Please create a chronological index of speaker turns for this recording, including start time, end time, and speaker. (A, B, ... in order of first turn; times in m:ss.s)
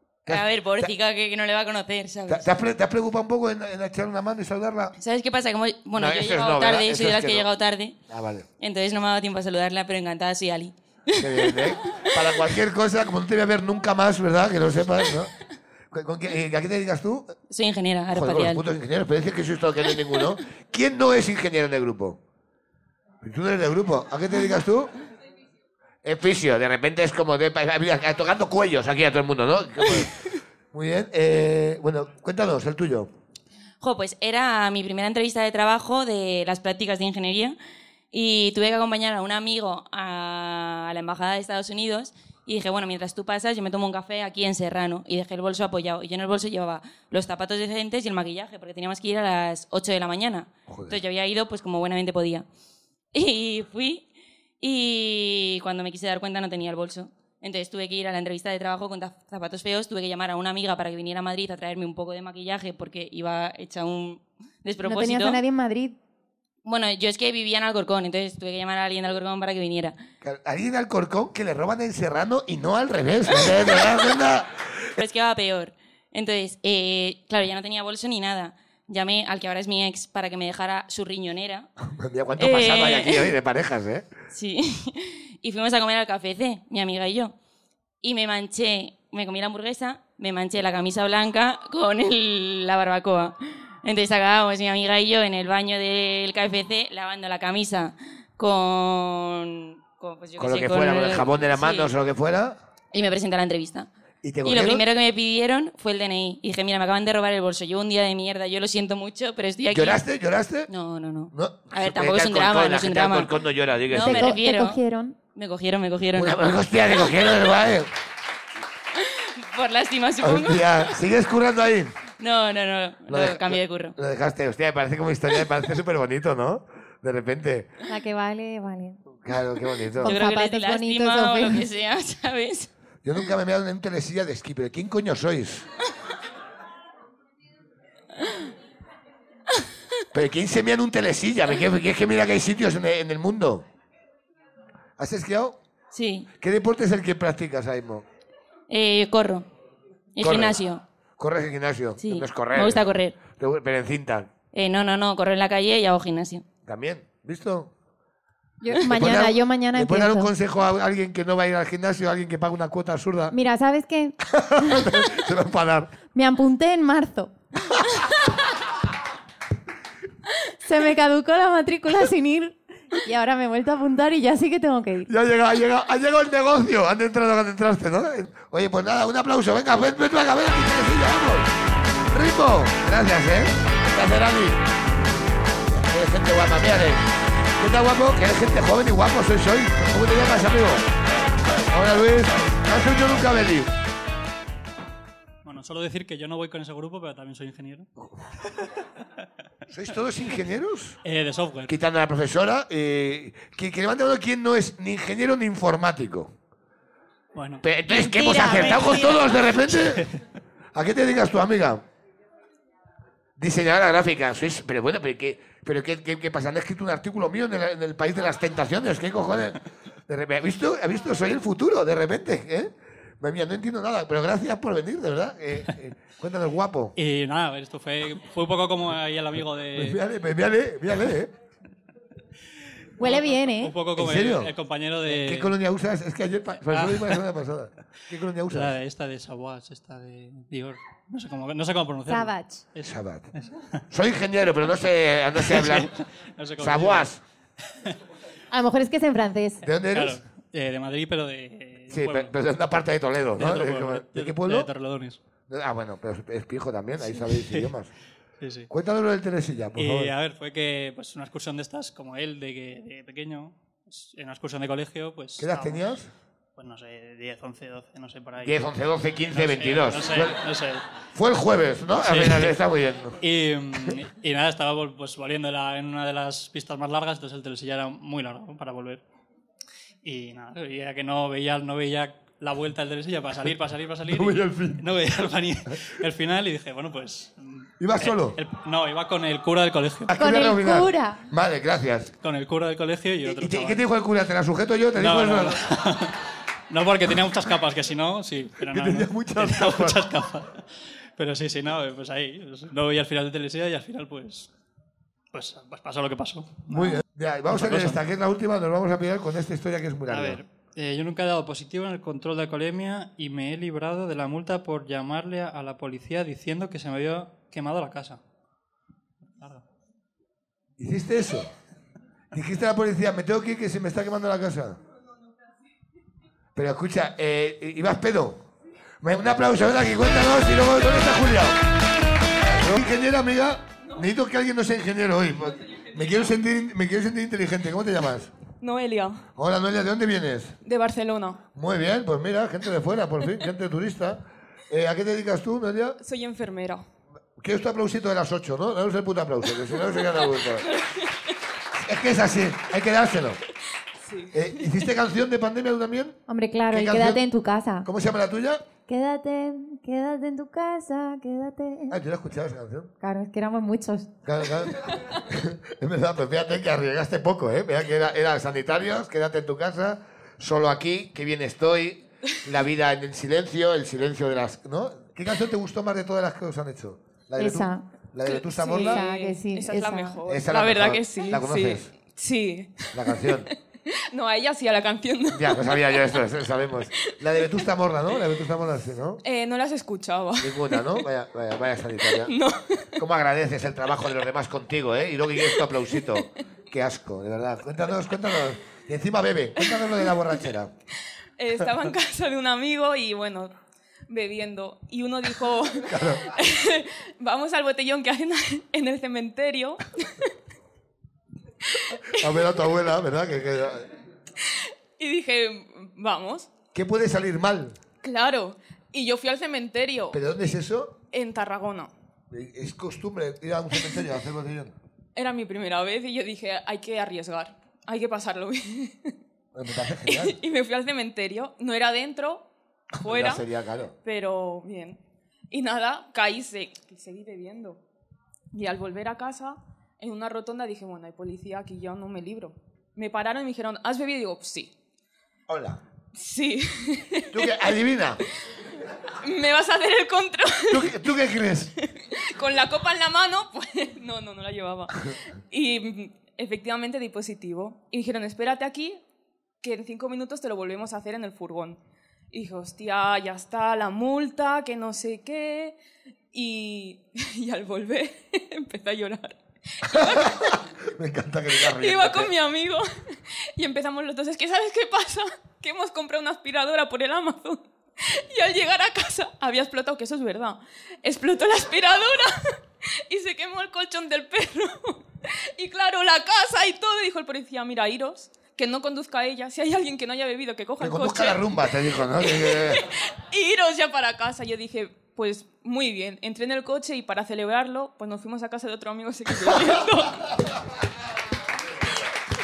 0:00.3-0:00.9 A
0:00.3-0:02.5 B
0:02.3-0:05.0 A
0:05.0-0:08.0 B
0:06.0-0:07.5 A
0:08.1-0:08.5 A
0:08.6-0:11.6 B
0:11.2-0:15.3 A
0:15.9-0:17.4 A
0:17.5-0:18.6 B
0:18.1-0:22.2 A
0:23.2-0:24.9 A
0:26.0-0:33.1 A
0:33.8-0:37.6 B
0:38.1-0:52.5 B
0:50.7-0:51.0 A
0:53.1-0:54.1 B
0:54.6-1:05.4 B
1:04.8-1:06.0 C
1:06.6-1:10.0 B
1:10.2-1:14.6 A
1:15.0-1:21.7 B
1:21.8-1:24.1 A
1:22.4-1:23.3 B
1:24.3-1:27.3 B
1:28.0-1:41.9 B
1:40.4-1:42.6 A
1:42.9-1:43.9 B
1:44.2-1:44.8 A
1:44.4-1:50.0 B
1:49.7-1:50.7 A
1:50.7-1:53.3 B
1:51.3-1:54.4 A
1:53.9-1:54.8 B
1:54.0-1:55.1 C
1:55.4-1:56.4 B
1:56.1-1:57.9 A
1:59.0-2:00.9 B
2:00.2-2:02.0 A
2:02.2-2:04.0 B
2:03.1-2:07.7 A
2:07.9-2:09.0 C
2:09.2-2:10.2 A
2:10.0-2:11.7 C
2:10.0-2:12.7 B
2:13.0-2:15.7 A
2:20.1-2:23.6 A
2:25.0-2:25.6 A
2:25.9-2:26.3 B
2:26.4-2:28.0 A
2:28.7-2:29.5 B
2:30.2-2:30.8 B
2:30.2-2:30.6 A
2:31.2-2:34.3 A
2:32.0-2:33.2 B
2:34.5-2:36.4 B
2:36.7-2:37.7 A
2:38.6-2:40.3 C
2:38.8-2:43.4 A
2:43.3-2:45.1 C
2:44.3-2:45.9 A
2:46.1-2:47.3 C
2:50.6-2:55.1 C
2:55.1-3:01.5 A
3:02.1-3:04.6 A
3:05.7-3:07.1 A
3:07.6-3:10.9 A
3:11.7-3:13.7 A
3:15.4-3:17.9 D
3:19.7-3:21.0 A
3:21.0-3:21.8 D
3:21.7-3:26.3 A
3:27.4-3:30.2 D
3:27.6-3:30.1 A
3:27.9-3:29.3 C
3:30.7-3:31.8 A
3:33.4-3:46.9 A
3:47.0-3:50.0 D
3:49.8-3:51.3 A
3:53.0-3:53.7 C
3:53.0-3:55.5 D
3:54.0-3:54.5 A
3:55.1-3:58.8 A
3:56.7-3:57.2 D
3:58.5-4:03.6 D
4:02.1-4:02.6 C
4:02.8-4:03.3 A
4:03.9-4:05.9 A
4:05.4-4:07.1 D
4:06.6-4:07.2 A
4:08.5-4:09.7 C
4:09.6-4:10.2 A
4:09.9-4:12.3 D
4:11.9-4:14.7 A
4:13.4-4:15.2 D
4:15.5-4:17.9 A
4:17.3-4:17.7 D
4:18.4-4:18.7 D
4:18.7-4:20.1 A
4:19.8-4:25.8 D
4:25.4-4:26.1 A
4:26.6-4:28.6 D
4:28.4-4:30.4 A
4:29.3-4:30.8 D
4:31.1-4:33.2 A
4:32.0-4:32.6 D
4:33.2-4:39.0 D
4:40.0-4:50.1 D
4:44.1-4:44.9 A
4:47.8-4:48.4 A
4:50.1-4:52.1 A
4:50.1-4:51.2 C
4:52.2-4:53.8 D
4:53.3-4:55.7 A
4:55.0-4:56.2 D
4:56.7-5:00.6 D
4:58.7-5:00.1 A
5:01.2-5:04.5 D
5:05.3-5:08.0 D
5:06.7-5:10.4 A
5:10.1-5:18.2 D
5:20.8-5:21.5 A
5:22.3-5:24.8 A
5:26.6-5:28.4 A
5:29.0-5:31.6 A
5:32.4-5:38.3 A
5:38.6-5:39.3 E
5:39.4-5:40.6 A
5:40.6-5:41.4 E
5:41.5-5:46.0 A
5:46.0-5:46.8 E
5:47.4-5:50.7 A
5:50.6-5:51.1 E
5:51.8-5:53.4 A
5:54.0-5:54.9 E
5:54.3-5:56.2 A
5:56.3-5:57.9 C
5:56.7-5:57.2 A
5:57.8-5:58.6 A
5:58.9-6:02.0 C
6:01.9-6:02.9 A
6:03.0-6:04.1 C
6:04.3-6:19.0 A
6:17.4-6:17.8 C
6:18.2-6:23.5 E
6:18.6-6:20.2 C
6:20.3-6:21.9 A
6:22.9-6:23.5 A
6:24.1-6:26.2 E
6:25.3-6:29.2 A
6:27.0-6:27.6 E
6:29.2-6:31.0 E
6:30.4-6:32.3 A
6:32.0-6:32.9 E
6:33.0-6:40.7 A
6:39.6-6:40.2 E
6:41.4-6:43.5 E
6:44.1-6:50.2 E
6:45.8-6:46.3 A
6:52.0-6:52.3 E
6:52.1-6:53.9 A
6:54.4-6:56.5 E
6:56.7-6:57.8 A
6:58.0-7:00.2 E
7:00.1-7:01.0 A
7:01.1-7:01.9 E
7:02.3-7:04.8 A
7:05.1-7:09.1 E
7:09.5-7:10.4 A
7:10.0-7:12.5 E
7:13.0-7:14.0 A
7:13.0-7:13.4 E
7:14.0-7:17.8 E
7:18.5-7:24.7 E
7:25.5-7:25.8 A
7:26.1-7:27.7 E
7:27.3-7:28.2 A
7:29.2-7:30.9 E
7:30.7-7:31.7 A
7:31.8-7:39.0 E
7:39.6-7:41.8 E
7:42.3-7:45.8 E
7:46.3-7:50.6 E
7:49.9-7:52.3 A
7:51.6-7:52.8 E
7:53.6-8:02.4 E
8:03.1-8:05.0 E
8:05.6-8:20.4 E
8:10.8-8:12.9 A
8:19.4-8:19.8 A